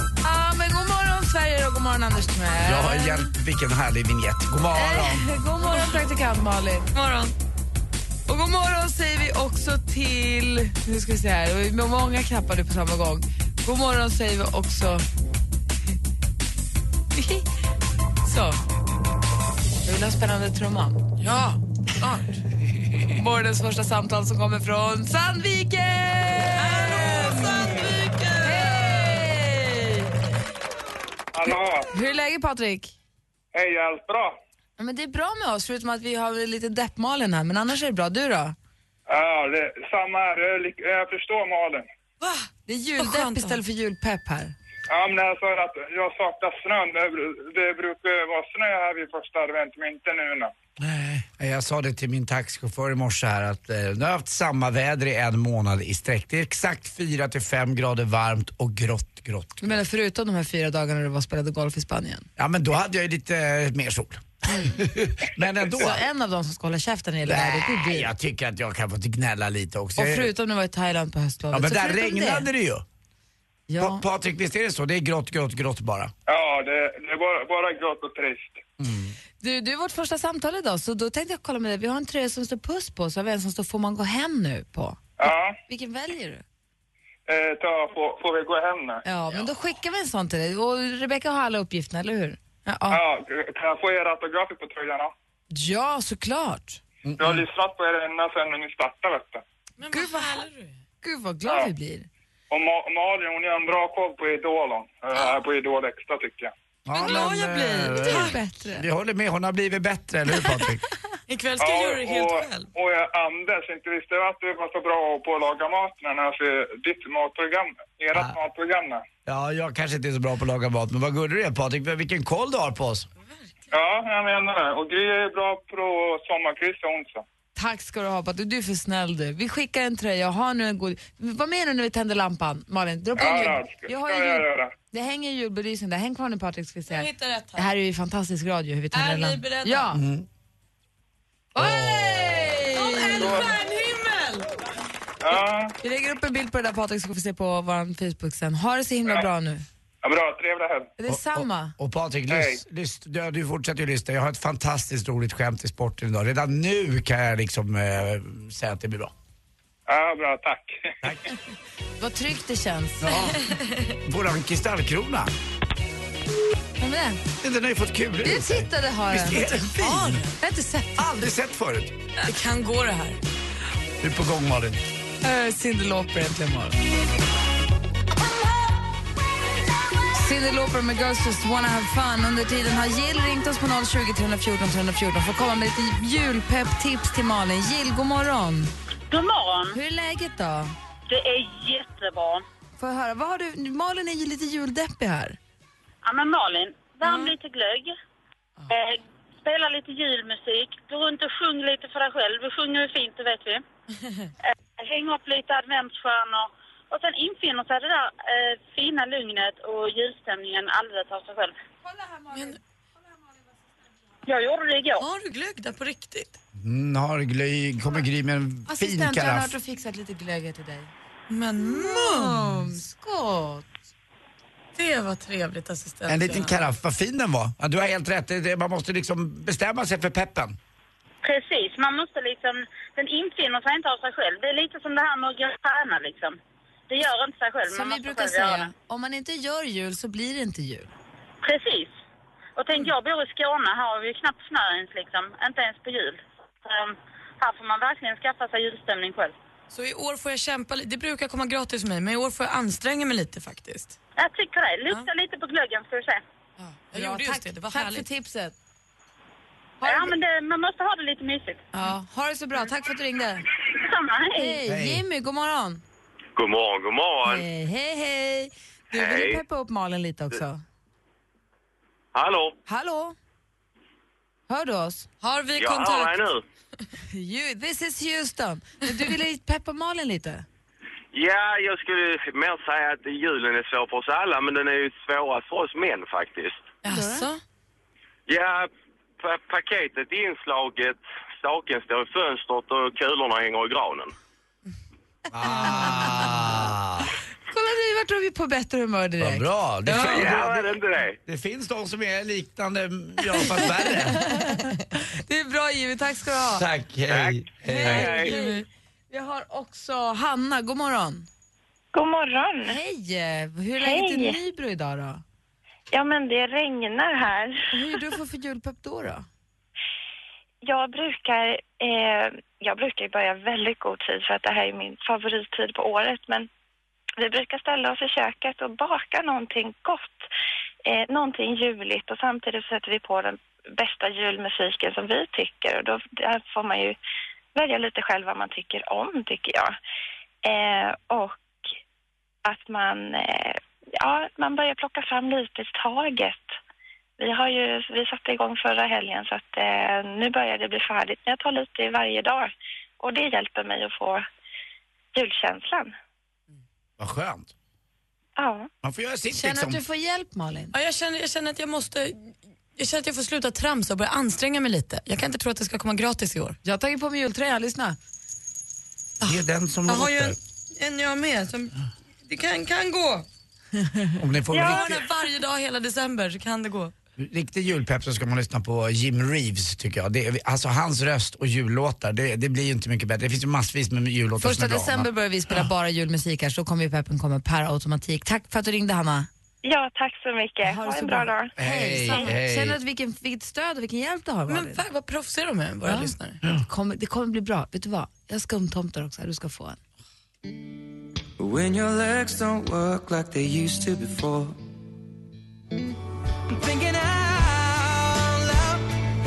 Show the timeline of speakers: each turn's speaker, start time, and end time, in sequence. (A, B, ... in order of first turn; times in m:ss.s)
0:00.2-0:03.3 A
0:02.6-0:05.3 B
0:04.7-0:06.9 A
0:05.7-0:06.0 C
0:06.9-0:07.3 C
0:08.3-0:15.0 A
0:17.1-0:17.4 A
0:18.2-0:18.6 A
0:19.8-0:21.0 A
0:21.2-0:22.4 C
0:23.1-0:27.8 A
0:26.6-0:29.2 C
0:28.4-0:30.1 A
0:31.3-0:31.9 D
0:31.9-0:32.9 A
0:33.5-0:34.4 D
0:34.8-0:38.6 A
0:39.1-0:41.9 D
0:42.2-0:43.6 C
0:42.7-0:44.5 A
0:44.9-0:50.5 D
0:50.8-0:59.8 B
0:59.6-1:02.3 A
1:02.4-1:06.0 B
1:05.7-1:08.1 A
1:07.2-1:10.3 B
1:10.0-1:12.5 A
1:11.5-1:12.8 B
1:13.7-1:14.0 A
1:13.8-1:16.1 B
1:16.3-1:18.6 D
1:18.8-1:19.2 B
1:19.4-1:26.4 A
1:25.2-1:25.6 D
1:27.3-1:29.0 D
1:29.0-1:33.0 A
1:32.9-1:35.1 D
1:35.5-1:36.8 A
1:37.0-1:37.4 B
1:37.2-1:39.4 D
1:39.8-1:40.8 C
1:39.9-1:40.4 A
1:41.0-1:42.1 A
1:42.5-1:46.5 D
1:46.8-1:50.8 B
1:47.0-1:48.8 A
1:47.0-1:48.4 C
1:51.3-1:52.7 C
1:51.6-1:59.0 D
1:59.2-2:03.1 B
2:03.7-2:07.2 D
2:07.6-2:20.0 A
2:13.1-2:14.7 D
2:16.9-2:17.7 C
2:18.9-2:19.9 C
2:19.9-2:20.2 B
2:21.5-2:23.4 A
2:21.6-2:22.5 B
2:22.7-2:24.5 C
2:23.2-2:23.5 D
2:25.2-2:25.7 D
2:25.8-2:29.6 A
2:30.0-2:30.9 D
2:31.0-2:31.7 A
2:31.1-2:39.1 B
2:32.3-2:32.6 D
2:39.9-2:40.9 D
2:42.0-2:43.2 A
2:43.0-2:45.3 B
2:43.5-2:43.8 C
2:46.8-2:47.2 A
2:47.4-2:50.2 B
2:48.2-2:49.7 A
2:49.7-2:50.4 C
2:50.4-2:51.1 A
2:51.0-2:51.9 B
2:52.2-2:53.2 C
2:54.0-2:54.8 B
2:55.2-2:56.8 A
3:00.1-3:08.7 A
3:09.1-3:09.8 E
3:09.7-3:10.7 A
3:11.1-3:12.4 E
3:12.8-3:15.4 A
3:16.0-3:17.9 E
3:17.0-3:17.3 C
3:18.7-3:23.6 E
3:24.5-3:31.6 E
3:31.8-3:32.6 A
3:32.3-3:32.6 C
3:34.2-3:35.0 E
3:35.0-3:36.4 C
3:36.6-3:39.5 B
3:38.7-3:40.9 A
3:41.3-3:42.7 C
3:41.6-3:43.7 A
3:44.7-3:46.6 C
3:46.1-3:50.6 B
3:51.2-3:56.4 E
3:56.9-3:58.7 E
3:57.7-4:00.9 A
4:01.4-4:01.9 E
4:02.6-4:09.3 E
4:09.7-4:14.0 C
4:14.2-4:16.2 E
4:16.6-4:18.0 C
4:16.9-4:18.5 A
4:19.8-4:20.2 A
4:19.8-4:21.6 E
4:21.7-4:23.4 A
4:23.7-4:24.6 E
4:24.3-4:25.8 A
4:24.6-4:25.0 B
4:26.4-4:27.4 F
4:27.2-4:30.6 A
4:28.9-4:29.4 F
4:32.1-4:32.6 F
4:32.7-4:33.2 A
4:34.5-4:35.1 A
4:35.2-4:36.3 C
4:35.6-4:36.4 F
4:37.1-4:40.4 A
4:41.1-4:46.7 F
4:46.8-4:47.4 C
4:46.9-4:47.3 A
4:48.3-4:54.1 F
4:55.3-4:57.1 B
4:55.8-4:56.1 A
4:57.5-5:00.3 A
4:59.2-5:04.2 B
5:00.0-5:01.2 F
5:03.4-5:06.6 A
5:06.5-5:08.3 B
5:07.1-5:08.3 F
5:07.6-5:11.3 A
5:08.1-5:08.5 C
5:11.9-5:12.7 G
5:12.7-5:15.2 A
5:13.8-5:14.4 G
5:15.9-5:17.6 G
5:17.7-5:19.2 A
5:20.6-5:26.5 G
5:27.2-5:30.3 G
5:30.8-5:37.0 G
5:37.5-5:39.8 G
5:40.4-5:41.4 G
5:42.4-5:46.6 G
5:47.2-5:54.2 G
5:55.1-5:55.9 G
5:57.0-5:57.5 B
5:58.4-5:58.7 G
5:58.8-5:59.8 B
5:59.3-6:00.7 A
6:00.7-6:06.6 C
6:06.6-6:08.0 A
6:09.2-6:11.7 C
6:09.2-6:10.4 B
6:12.2-6:13.2 C
6:14.2-6:15.0 B
6:14.5-6:16.9 C
6:17.2-6:25.1 B
6:24.4-6:29.3 A
6:29.6-6:31.5 G
6:30.6-6:34.8 A
6:31.6-6:32.8 B
6:34.5-6:36.4 C
6:35.8-6:39.8 A
6:41.4-6:44.5 H
6:46.6-6:48.8 H